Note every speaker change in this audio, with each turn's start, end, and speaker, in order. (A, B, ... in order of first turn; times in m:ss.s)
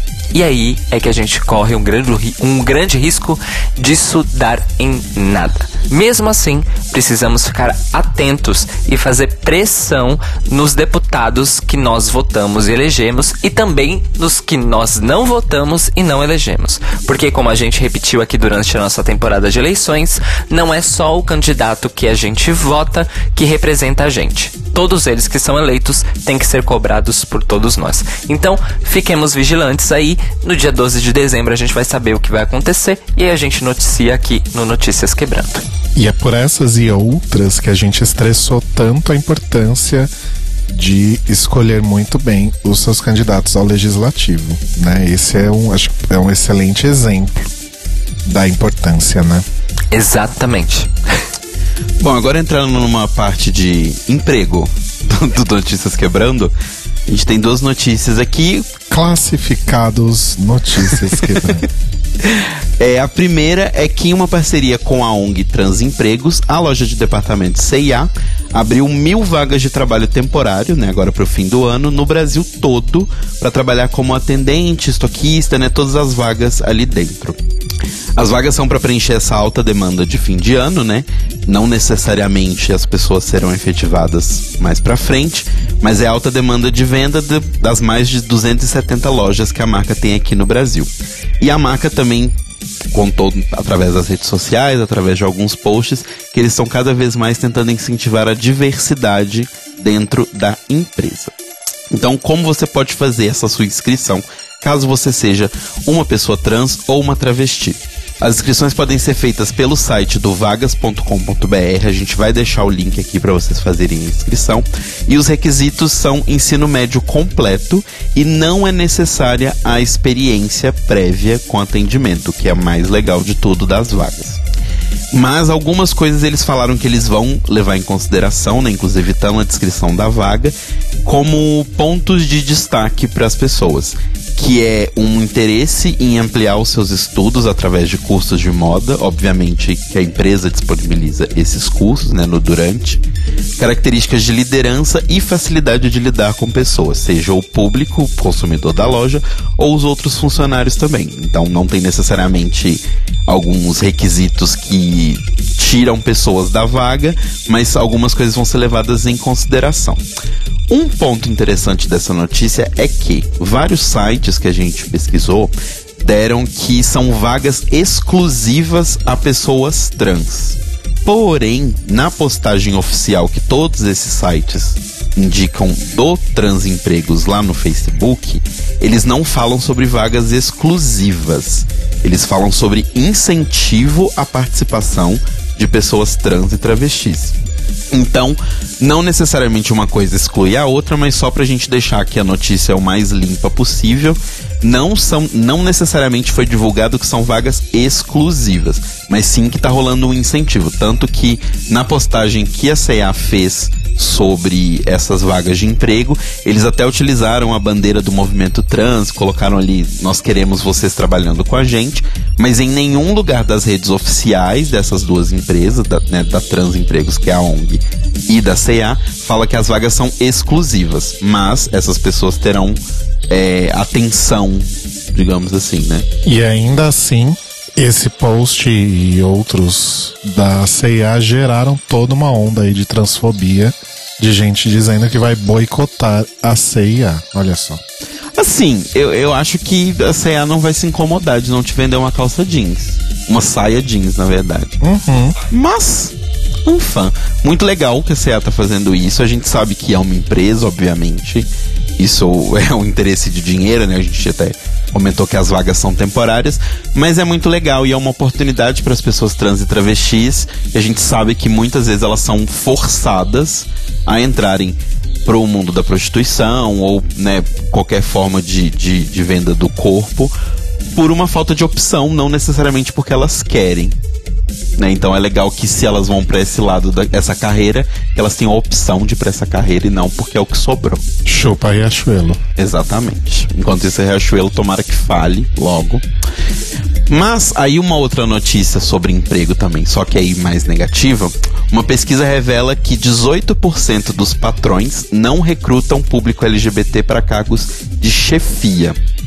0:00.3-0:35.6 A
0:36.0-0:40.1 B
0:40.7-0:47.5 B
0:48.2-0:49.4 B
0:49.9-0:50.9 A
0:52.0-0:56.5 C
0:57.1-0:58.7 C
0:58.9-1:01.7 B
1:02.2-1:17.4 C
1:18.2-1:32.4 C
1:32.9-1:41.3 C
1:41.9-2:04.4 C
2:05.1-2:10.5 C
2:11.0-2:23.0 C
2:23.6-2:40.0 C
2:40.7-3:07.4 C
3:07.9-3:46.1 C
3:46.2-3:57.8 B
3:58.4-4:04.8 C
4:04.8-4:05.4 B
4:05.5-4:30.3 C
4:30.9-4:34.0 C
4:34.8-4:41.0 C
4:41.3-4:42.4 B
4:42.6-4:46.0 C
4:47.1-4:59.0 C